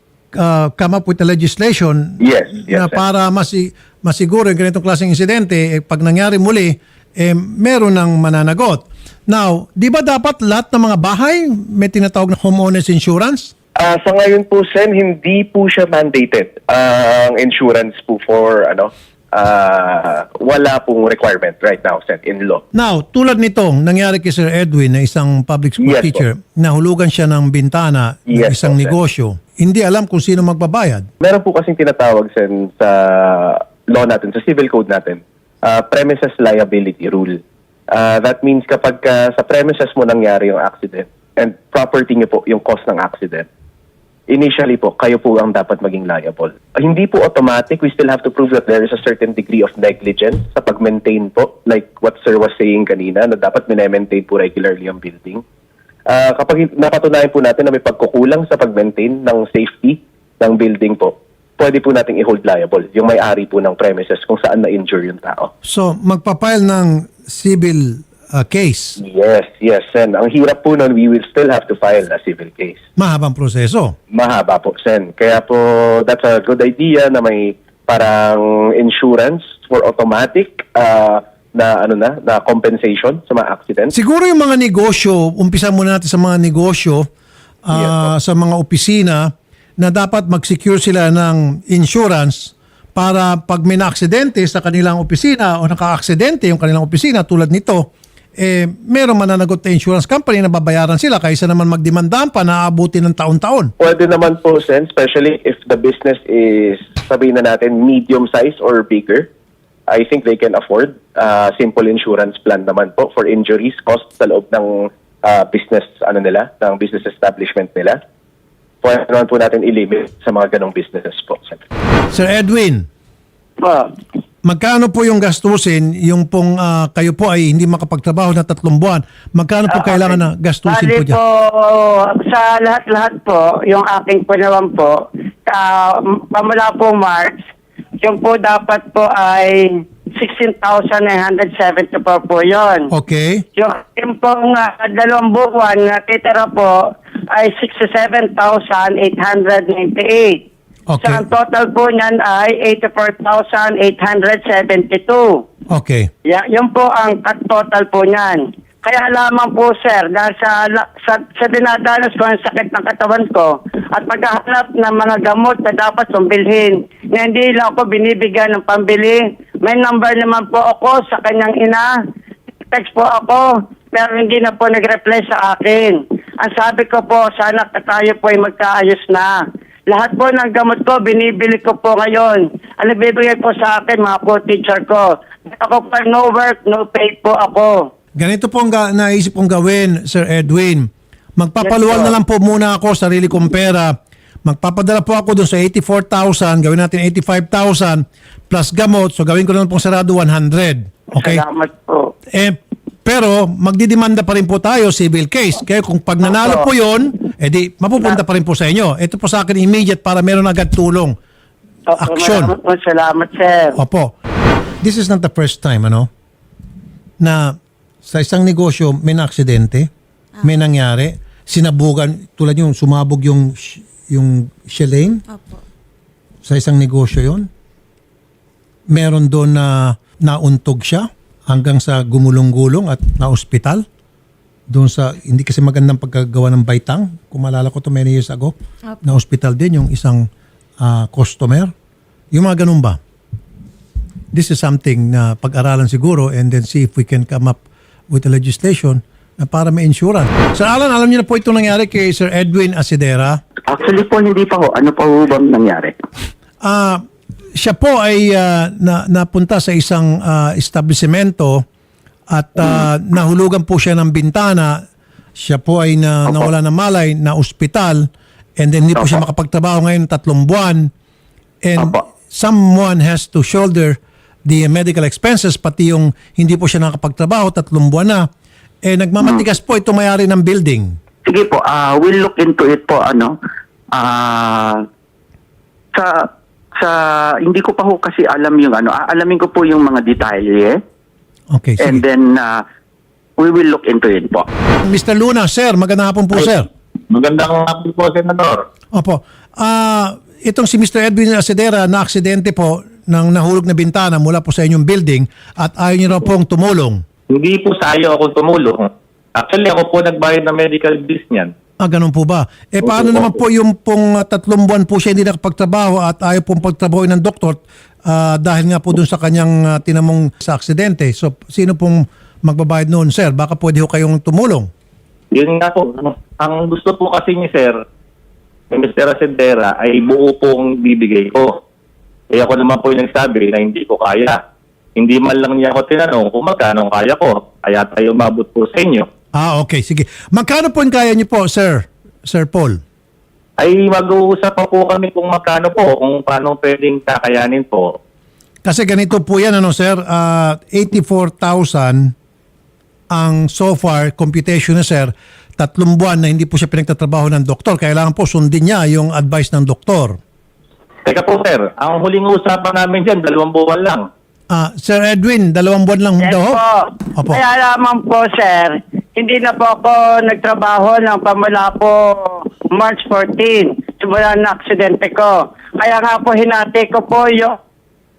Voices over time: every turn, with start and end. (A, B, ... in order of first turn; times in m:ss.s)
0:00.3-0:13.5 A
0:02.2-0:03.0 B
0:13.8-0:22.6 B
0:22.7-0:31.1 A
0:25.8-0:26.2 B
0:28.3-0:28.9 B
0:31.2-0:37.4 B
0:37.9-0:43.5 B
0:44.3-0:55.4 B
0:56.1-1:05.5 B
1:05.6-1:09.0 A
1:09.0-1:12.8 B
1:13.0-1:14.0 A
1:14.1-1:23.9 B
1:23.9-1:27.0 A
1:27.7-1:37.9 A
1:27.7-1:28.1 B
1:38.4-1:43.7 A
1:43.8-1:49.3 B
1:49.9-1:58.0 B
1:58.8-2:01.6 B
2:02.1-2:02.9 A
2:03.6-2:03.9 C
2:04.4-2:11.2 A
2:09.8-2:17.4 C
2:18.0-2:22.9 C
2:22.9-2:23.4 A
2:23.6-2:30.4 C
2:30.9-2:31.3 A
2:31.0-2:35.4 C
2:35.7-2:36.1 A
2:36.2-2:51.9 C
2:52.7-2:59.3 C
2:59.9-3:07.9 C
3:08.2-3:21.4 A
3:11.6-3:12.2 C
3:21.2-3:22.1 C
3:22.3-3:31.2 A
3:26.3-3:26.7 C
3:31.9-3:33.8 C
3:32.0-3:32.5 A
3:33.8-3:34.1 A
3:34.8-3:36.1 A
3:37.2-3:39.9 A
3:40.4-3:45.2 A
3:46.5-3:47.5 A
3:48.9-3:53.8 A
3:54.7-4:00.3 A
4:00.8-4:01.7 A
4:02.3-4:03.0 A
4:04.3-4:07.6 A
4:08.1-4:13.4 A
4:13.7-4:16.0 D
4:16.6-4:17.0 A
4:17.6-4:21.6 A
4:22.3-4:24.8 A
4:25.4-4:28.1 A
4:28.6-4:30.9 A
4:31.6-4:38.3 A
4:38.8-4:41.0 A
4:41.3-4:43.4 D
4:43.9-4:44.8 D
4:46.0-4:50.8 D
4:51.5-4:52.0 A
4:51.8-4:52.6 D
4:53.4-4:54.5 D
4:54.8-4:56.7 A
4:57.1-4:58.6 E
4:58.9-5:07.0 A
5:07.3-5:11.5 E
5:11.8-5:24.7 A
5:12.9-5:13.2 E
5:25.3-5:27.8 E
5:28.7-5:31.6 E
5:32.3-5:34.4 E
5:35.0-5:39.1 E
5:39.3-5:42.8 A
5:43.6-5:48.0 E
5:48.6-5:52.1 A
5:53.1-6:00.2 A
6:01.1-6:04.0 E
6:04.5-6:06.6 A
6:06.2-6:17.6 C
6:07.2-6:07.4 A